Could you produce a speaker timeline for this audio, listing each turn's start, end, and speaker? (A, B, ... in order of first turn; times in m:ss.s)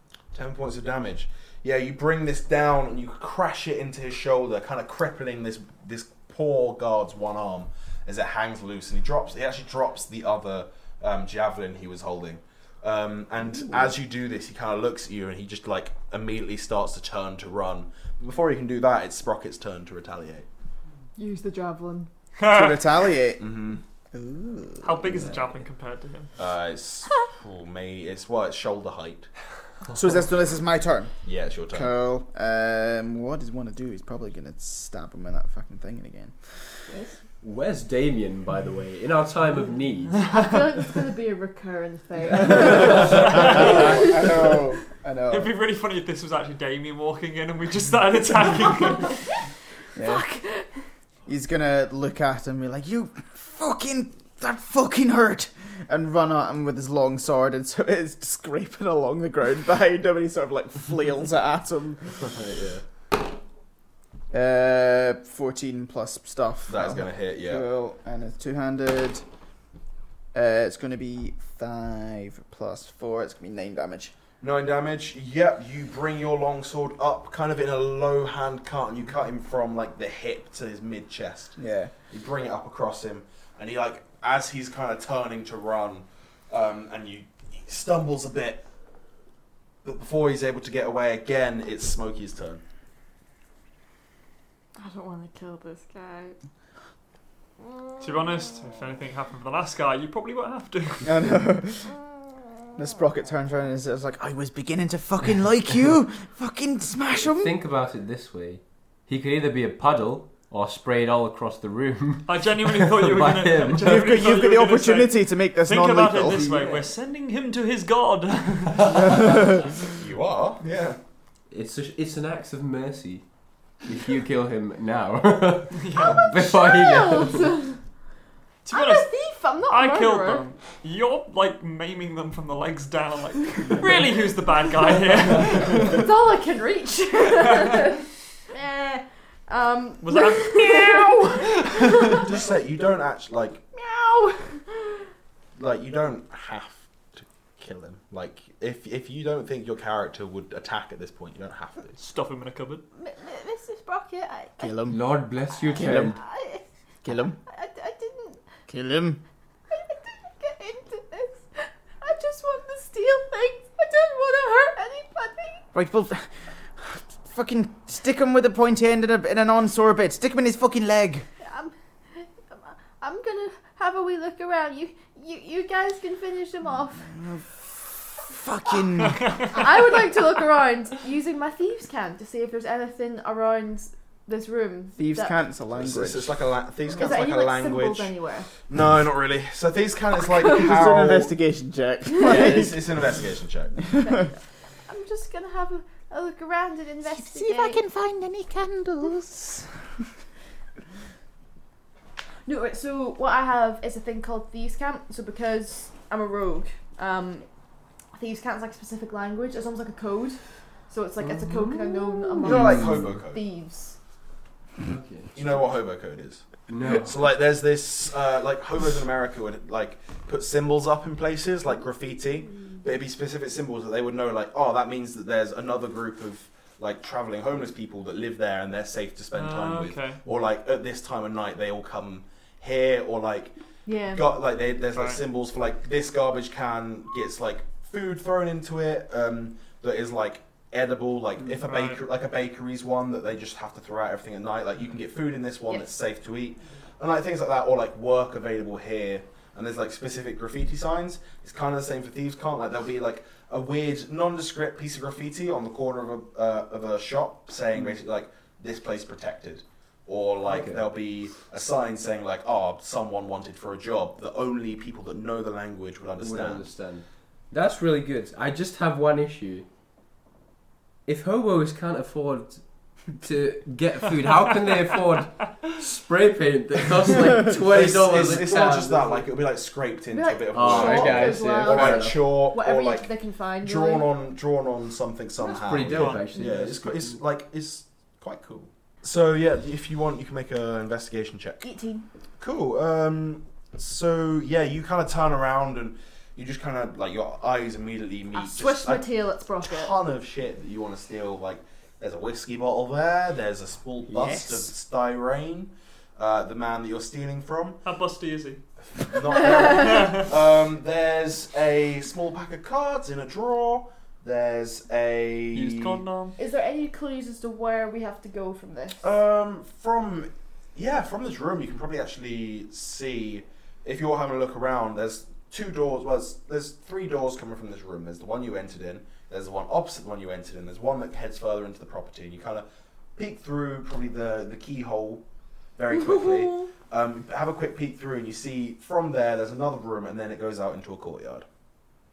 0:00.3-0:20.5 A
0:21.2-0:22.1 B
0:22.4-0:23.0 C
0:22.5-0:23.5 D
0:23.4-0:23.8 A
0:24.1-0:25.3 D
0:24.8-0:26.3 C
0:26.4-0:29.3 A
0:29.9-0:31.1 D
0:31.2-0:32.0 A
0:31.7-0:36.6 D
0:36.9-0:37.2 B
0:37.4-0:40.3 E
0:40.3-0:44.2 B
0:42.4-0:45.5 D
0:42.7-0:43.4 E
0:43.1-0:44.0 C
0:45.3-0:49.2 C
0:50.0-0:50.2 D
0:50.0-0:50.7 B
0:51.3-1:02.4 D
1:02.4-1:02.8 A
1:04.3-1:09.2 D
1:06.7-1:07.7 A
1:10.3-1:14.1 D
1:14.4-1:21.6 A
1:21.6-1:21.9 D
1:22.1-1:28.6 A
1:29.8-1:32.6 A
1:34.8-1:36.4 B
1:38.0-1:41.3 C
1:41.0-1:42.0 D
1:42.8-1:47.5 D
1:47.2-1:54.2 E
1:52.3-1:59.2 C
1:53.8-1:56.6 D
1:56.3-1:56.8 E
1:59.9-2:01.0 A
2:01.5-2:07.6 E
2:05.7-2:06.2 C
2:06.0-2:07.8 B
2:08.6-2:09.1 C
2:08.7-2:10.4 B
2:09.7-2:16.1 C
2:15.8-2:22.3 B
2:20.0-2:22.1 C
2:22.1-2:23.6 A
2:23.7-2:25.1 B
2:25.6-2:32.0 A
2:32.0-2:32.8 C
2:33.0-2:34.8 B
2:34.6-2:35.0 D
2:34.9-2:36.2 E
2:35.6-2:36.6 B
2:35.7-2:36.2 D
2:37.0-2:37.4 D
2:37.5-2:38.4 B
2:38.7-2:39.2 D
2:39.7-2:45.6 B
2:45.7-2:51.3 D
2:51.4-2:57.1 B
2:57.1-2:59.4 D
2:59.0-2:59.6 C
2:59.5-3:05.4 B
3:05.0-3:06.4 D
3:05.8-3:11.3 A
3:07.0-3:08.5 B
3:10.4-3:13.0 D
3:12.2-3:13.8 A
3:14.0-3:17.8 B
3:17.1-3:19.7 D
3:22.5-3:27.5 B
3:28.1-3:30.4 B
3:30.9-3:34.0 B
3:32.4-3:33.2 E
3:32.4-3:33.4 A
3:34.8-3:35.4 E
3:35.3-3:53.5 A
3:36.7-3:37.2 E
3:49.3-3:50.2 C
3:53.9-3:54.2 B
3:54.1-4:26.7 A
3:54.9-3:55.2 C
4:01.6-4:02.0 C
4:20.4-4:20.9 E
4:26.2-4:29.7 E
4:31.1-4:32.6 E
4:33.2-4:39.3 E
4:37.6-4:43.1 A
4:40.1-4:44.1 B
4:40.5-4:42.3 E
4:43.6-4:51.6 A
4:45.4-4:47.2 E
4:45.8-4:46.3 C
4:51.6-4:52.1 B
4:52.4-4:59.1 A
4:58.3-5:00.0 B
4:59.6-5:07.8 A
5:04.1-5:04.6 D
5:07.8-5:08.6 C
5:08.8-5:16.0 A
5:09.5-5:10.2 C
5:15.5-5:16.4 C
5:16.4-5:19.0 B
5:19.0-5:35.2 A
5:35.8-5:41.4 A
5:36.1-5:36.5 B